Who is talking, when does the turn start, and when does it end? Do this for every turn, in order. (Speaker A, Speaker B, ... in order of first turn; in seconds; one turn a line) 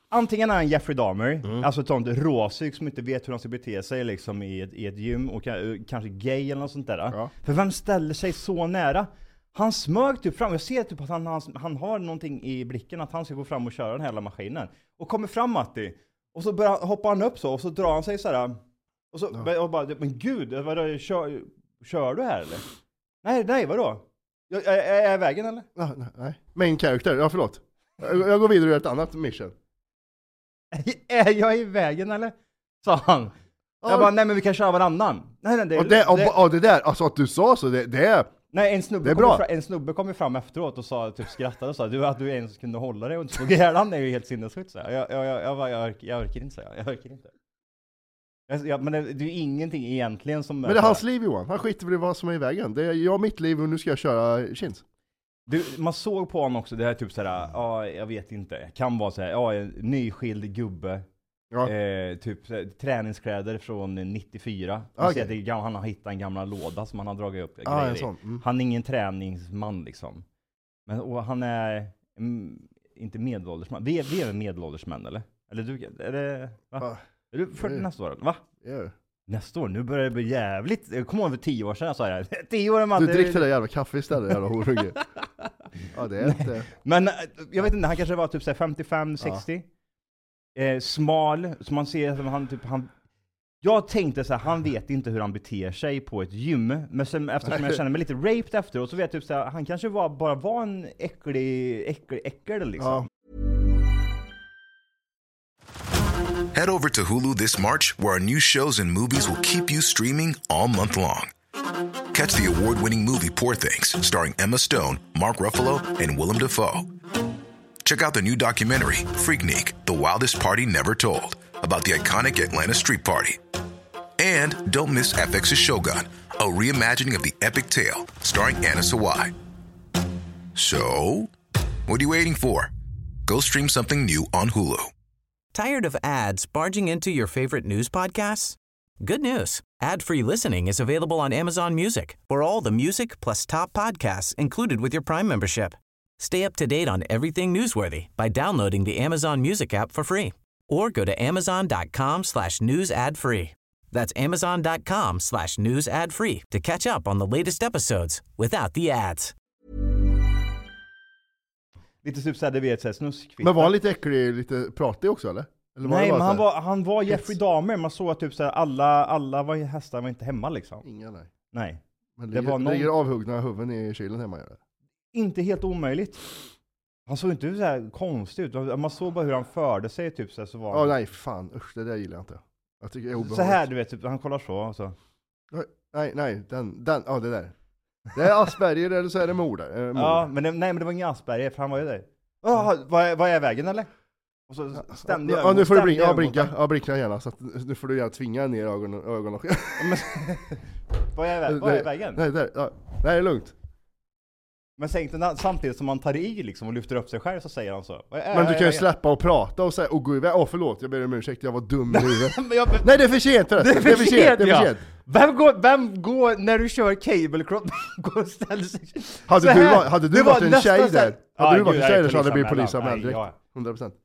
Speaker A: 0.1-18.6
Speaker A: 19.1-22.6
Speaker A: 23.2-25.7
Speaker B: 25.8-29.5
Speaker A: 30.7-33.3
Speaker B: 33.8-34.1
Speaker A: 33.9-36.4
Speaker B: 35.8-38.3
Speaker A: 38.5-47.3
Speaker B: 39.0-39.4
Speaker A: 48.5-51.0
Speaker B: 50.6-54.8
Speaker A: 55.5-61.0
Speaker A: 61.6-70.2
Speaker B: 65.0-65.3
Speaker B: 67.7-68.4
Speaker A: 70.9-78.4
Speaker B: 77.6-77.9
Speaker B: 78.6-78.9
Speaker A: 79.3-83.5
Speaker B: 83.0-85.0
Speaker B: 85.9-86.7
Speaker A: 86.2-89.7
Speaker A: 90.6-92.9
Speaker A: 93.6-103.1
Speaker B: 97.5-97.8
Speaker B: 102.8-103.1
Speaker C: 106.5-111.3
Speaker C: 112.1-116.9
Speaker C: 117.8-123.4
Speaker C: 124.2-129.3
Speaker C: 130.6-131.3
Speaker C: 131.9-132.7
Speaker C: 133.3-134.9
Speaker D: 135.5-159.3
Speaker A: 162.0-163.8
Speaker B: 163.4-166.5
Speaker A: 165.8-170.8
Speaker B: 167.1-167.3
Speaker B: 170.8-171.3
Speaker A: 171.5-171.8
Speaker B: 172.2-174.6
Speaker A: 172.3-172.9
Speaker A: 175.1-176.2
Speaker A: 177.1-181.0
Speaker B: 180.7-183.7
Speaker A: 183.2-184.9
Speaker B: 185.5-187.5
Speaker B: 188.1-190.3
Speaker A: 189.9-193.9
Speaker A: 194.5-196.5
Speaker B: 194.8-200.1
Speaker A: 199.8-200.6
Speaker A: 201.1-202.2
Speaker B: 201.5-203.5
Speaker A: 204.8-208.9
Speaker B: 208.3-214.8
Speaker A: 211.9-223.4
Speaker B: 219.3-223.9